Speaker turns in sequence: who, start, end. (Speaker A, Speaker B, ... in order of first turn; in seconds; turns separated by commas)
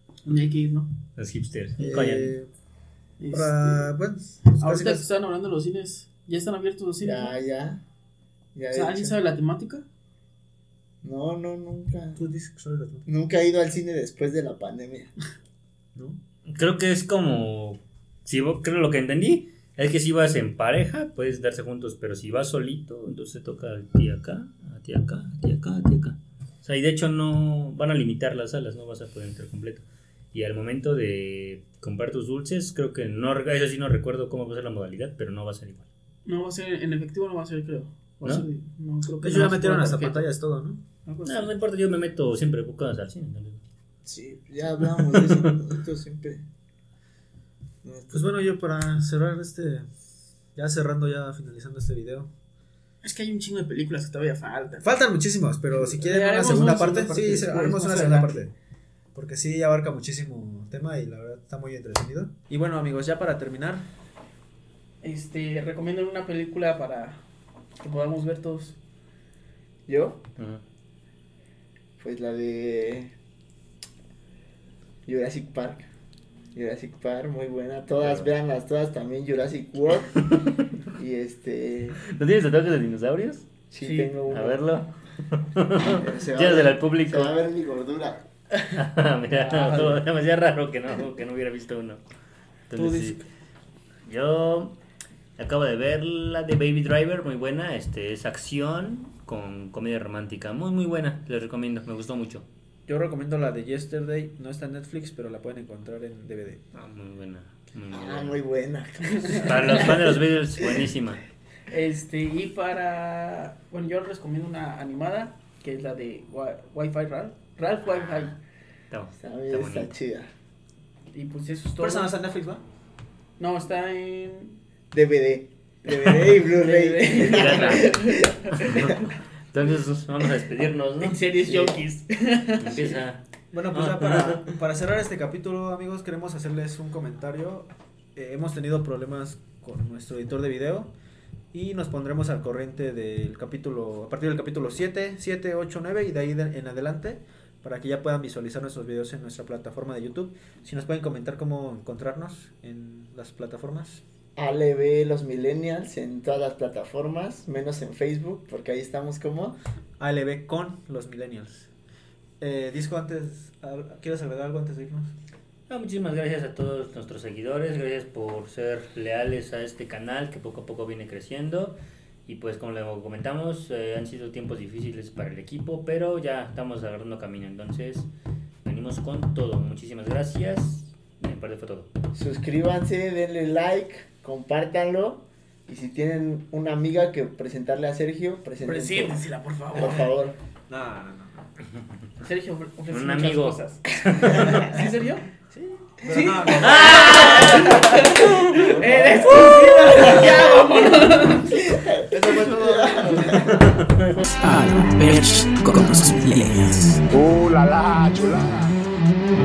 Speaker A: 0.2-0.9, Speaker B: 1.1-2.3, Speaker C: 1.8-2.5, Speaker A: 3.2-3.9, Speaker C: 3.3-5.0, Speaker A: 4.5-7.3, Speaker D: 7.0-7.8, Speaker D: 8.5-9.2, Speaker A: 8.7-9.8, Speaker D: 11.0-12.2, Speaker C: 12.2-13.0, Speaker D: 13.1-15.1, Speaker B: 16.4-35.9, Speaker A: 36.2-40.3, Speaker C: 39.2-40.8, Speaker A: 41.0-41.5, Speaker B: 41.2-43.6, Speaker D: 44.0-46.4, Speaker B: 45.0-45.5, Speaker D: 47.8-48.3, Speaker C: 48.1-49.9, Speaker C: 50.5-52.3, Speaker A: 53.0-54.8, Speaker C: 54.8-58.5, Speaker A: 55.7-58.4, Speaker C: 59.1-63.9, Speaker A: 65.0-67.2, Speaker A: 67.8-68.8, Speaker D: 69.9-70.2, Speaker B: 70.4-70.6, Speaker D: 72.0-73.1, Speaker D: 75.0-75.9, Speaker D: 76.5-80.2, Speaker B: 78.0-78.3, Speaker B: 80.1-80.7, Speaker D: 80.9-82.0, Speaker B: 82.1-83.5, Speaker D: 83.7-84.6, Speaker A: 83.8-84.2, Speaker B: 84.3-87.3, Speaker D: 85.9-88.3, Speaker B: 88.7-92.0, Speaker A: 89.4-90.0, Speaker B: 92.7-93.2, Speaker C: 92.8-93.2, Speaker B: 94.0-94.8, Speaker B: 95.4-102.5, Speaker C: 102.9-106.6, Speaker B: 106.7-108.4, Speaker D: 107.9-110.0, Speaker A: 109.1-109.9, Speaker B: 109.4-111.2, Speaker A: 111.7-118.4, Speaker B: 118.9-119.9, Speaker D: 119.2-120.3, Speaker A: 121.1-122.1, Speaker C: 121.8-122.6, Speaker A: 123.4-124.6, Speaker D: 124.9-129.1, Speaker A: 126.5-128.9, Speaker B: 127.1-128.0, Speaker B: 128.5-131.3, Speaker A: 131.0-133.0, Speaker D: 131.4-131.8, Speaker B: 132.6-134.6, Speaker C: 133.5-140.9, Speaker C: 141.5-154.0, Speaker D: 154.3-159.6, Speaker C: 160.0-161.7, Speaker C: 162.4-165.1, Speaker B: 165.7-178.1, Speaker B: 178.6-181.9, Speaker D: 182.1-190.4, Speaker A: 188.6-190.1, Speaker C: 190.7-191.5, Speaker A: 192.2-195.2, Speaker B: 192.9-194.7, Speaker C: 195.5-200.3, Speaker A: 196.0-201.6, Speaker B: 196.6-198.4, Speaker D: 201.5-203.6, Speaker C: 202.1-203.6, Speaker B: 203.3-204.2, Speaker E: 204.4-207.0, Speaker D: 207.1-208.7